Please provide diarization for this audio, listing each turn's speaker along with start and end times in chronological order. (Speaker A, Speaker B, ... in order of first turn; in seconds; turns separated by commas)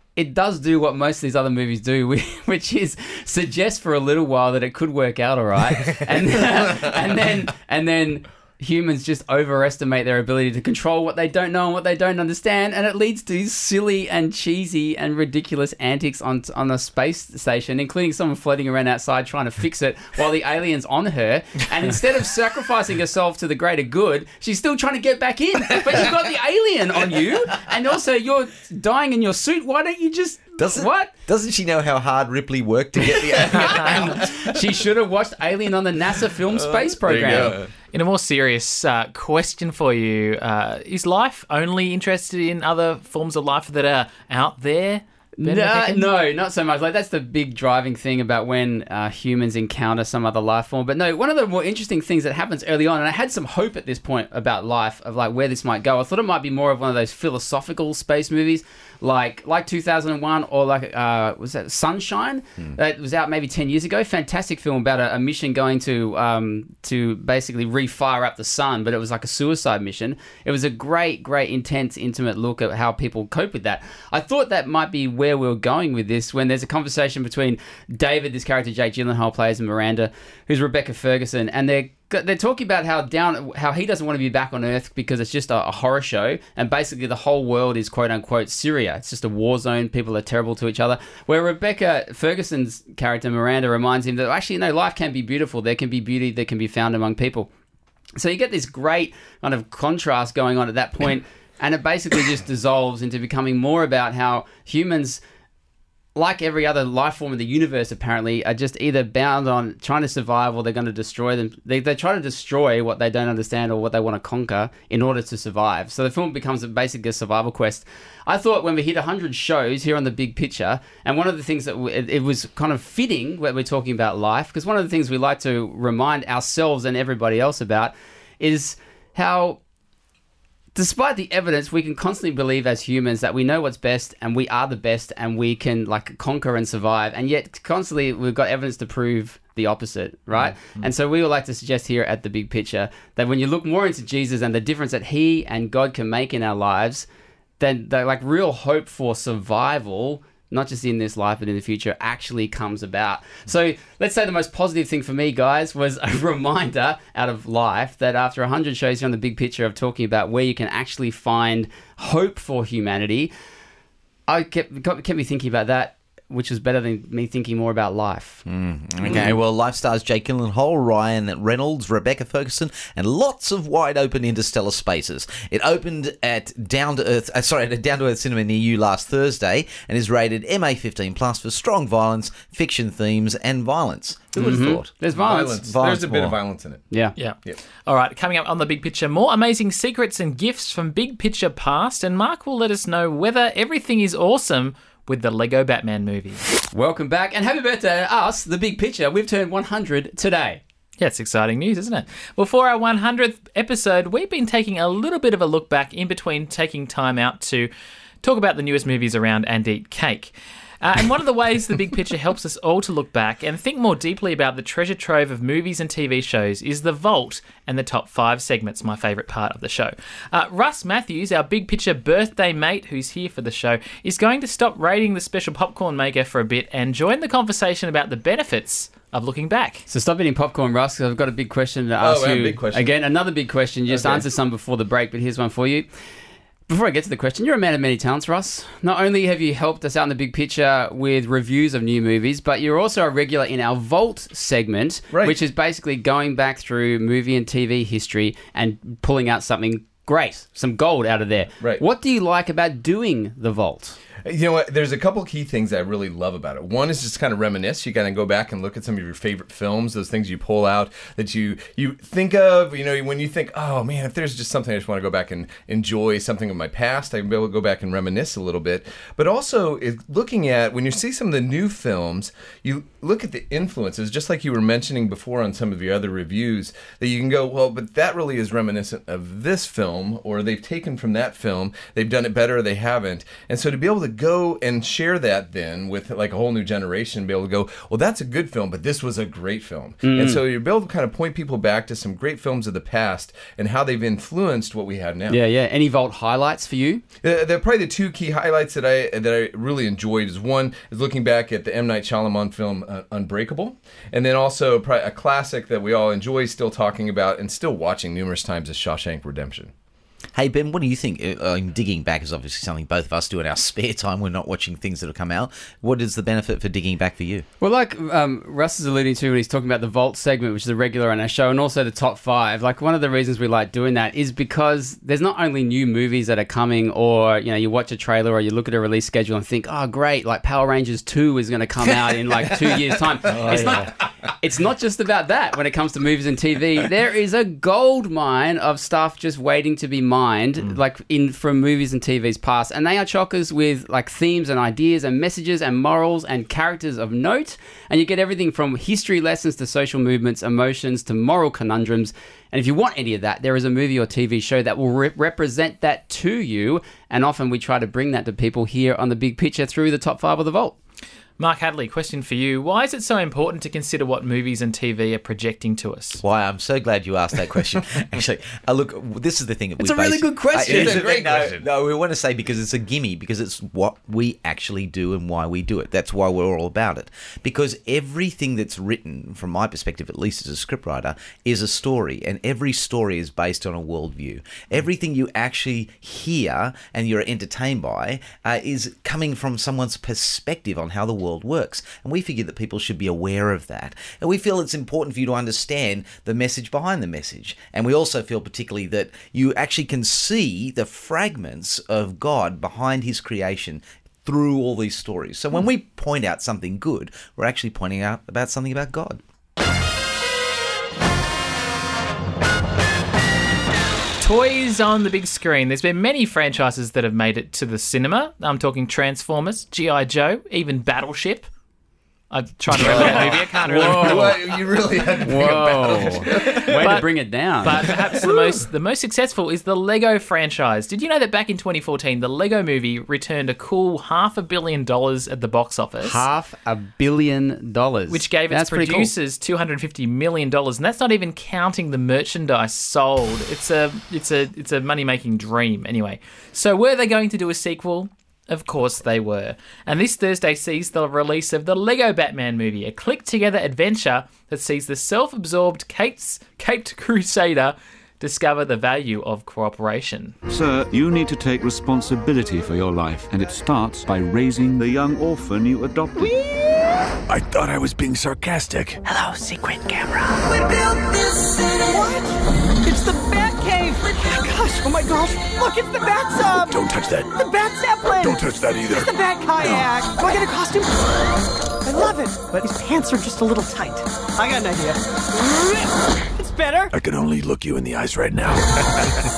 Speaker A: 0.2-31.1, Speaker B: 30.6-34.4, Speaker C: 33.2-34.3, Speaker A: 33.7-37.6, Speaker C: 36.5-37.7, Speaker D: 37.9-46.1, Speaker A: 45.4-97.5, Speaker A: 98.2-105.2, Speaker A: 106.2-129.6, Speaker A: 130.8-147.1, Speaker A: 147.6-163.3, Speaker A: 164.3-168.4, Speaker B: 168.5-186.4, Speaker A: 169.0-169.3, Speaker A: 184.4-185.7, Speaker C: 185.1-186.8, Speaker A: 186.9-187.2, Speaker D: 187.2-196.4, Speaker A: 196.7-200.6, Speaker D: 201.0-207.7, Speaker D: 208.2-229.8, Speaker A: 229.9-235.9, Speaker C: 232.0-233.0, Speaker C: 233.9-234.3, Speaker A: 236.7-254.0, Speaker C: 245.1-245.4, Speaker C: 254.2-295.4, Speaker A: 290.0-290.4, Speaker A: 295.3-297.0, Speaker C: 297.2-309.7, Speaker B: 310.4-317.4, Speaker A: 317.6-360.8, Speaker C: 333.3-333.8, Speaker D: 333.5-333.8, Speaker D: 361.4-366.2, Speaker B: 366.2-409.2, Speaker A: 369.8-370.9, Speaker C: 370.5-371.6, Speaker D: 414.2-421.5, Speaker D: 422.3-424.4, Speaker C: 422.7-427.0, Speaker A: 422.8-424.4, Speaker A: 425.2-427.9, Speaker D: 426.4-427.1, Speaker D: 427.6-436.2, Speaker C: 427.7-428.6, Speaker A: 436.0-439.1, Speaker D: 438.1-460.4, Speaker E: 460.5-466.3, Speaker F: 466.2-466.9, Speaker G: 467.3-469.0, Speaker F: 469.1-469.9, Speaker F: 471.8-472.3, Speaker F: 472.8-476.8, Speaker G: 476.7-477.4, Speaker F: 477.4-481.3, Speaker G: 478.2-479.9, Speaker F: 481.8-486.9, Speaker G: 486.9-489.3